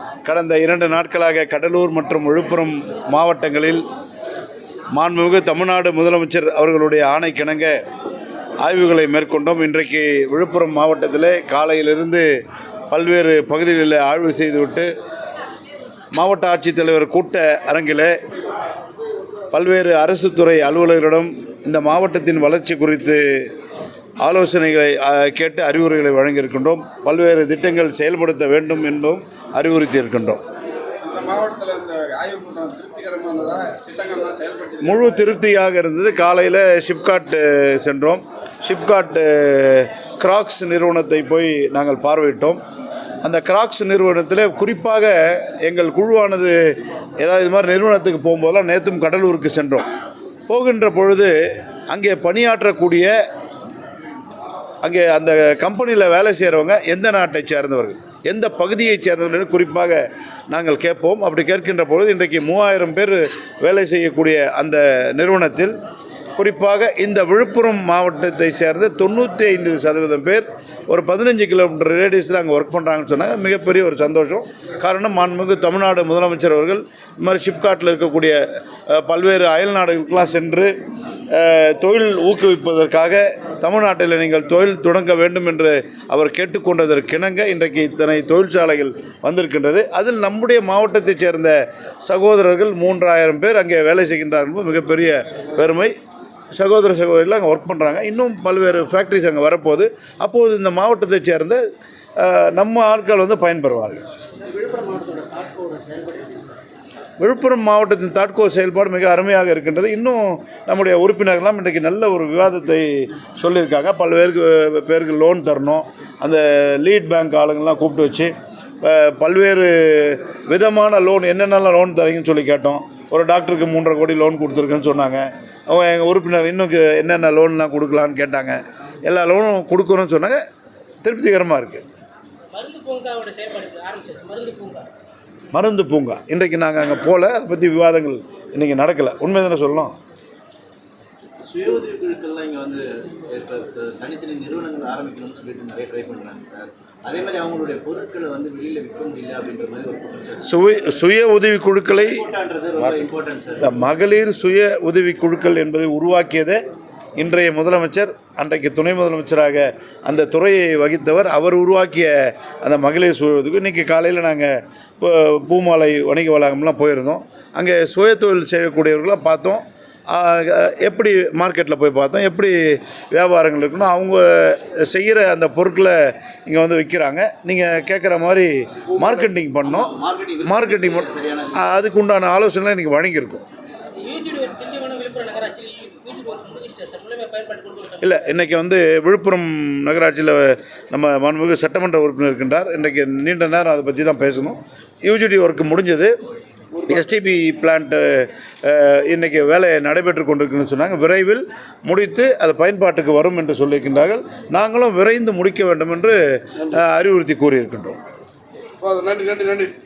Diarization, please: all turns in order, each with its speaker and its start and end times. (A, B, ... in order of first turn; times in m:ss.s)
0:00.2-0:03.8 A
0:04.9-0:07.8 A
0:08.6-0:12.2 A
0:12.9-0:14.9 A
0:16.1-0:18.2 A
0:19.5-0:23.5 A
0:24.2-0:30.4 A
0:31.0-0:35.3 B
0:34.8-0:42.6 A
0:43.2-0:46.6 A
0:47.2-0:49.8 A
0:50.5-0:51.3 A
0:51.9-0:53.1 A
0:54.8-1:05.8 A
1:06.4-1:20.7 A
1:21.3-1:35.9 A
1:36.5-1:41.6 A
1:42.2-1:44.0 A
1:44.4-1:46.6 C
1:47.2-2:10.4 A
2:11.0-2:11.8 A
2:12.5-2:14.9 D
2:15.5-2:19.9 A
2:21.4-2:30.6 E
2:30.4-2:32.2 A
2:32.0-2:33.7 E
2:33.6-2:36.6 A
2:37.2-2:52.6 A
2:53.1-2:55.9 A
2:56.4-2:59.9 A
2:59.6-3:01.8 E
3:00.4-3:01.0 A
3:01.6-3:03.4 A
3:04.0-3:08.2 D
3:08.0-3:16.1 A
3:16.8-3:28.0 A
3:28.8-3:29.7 B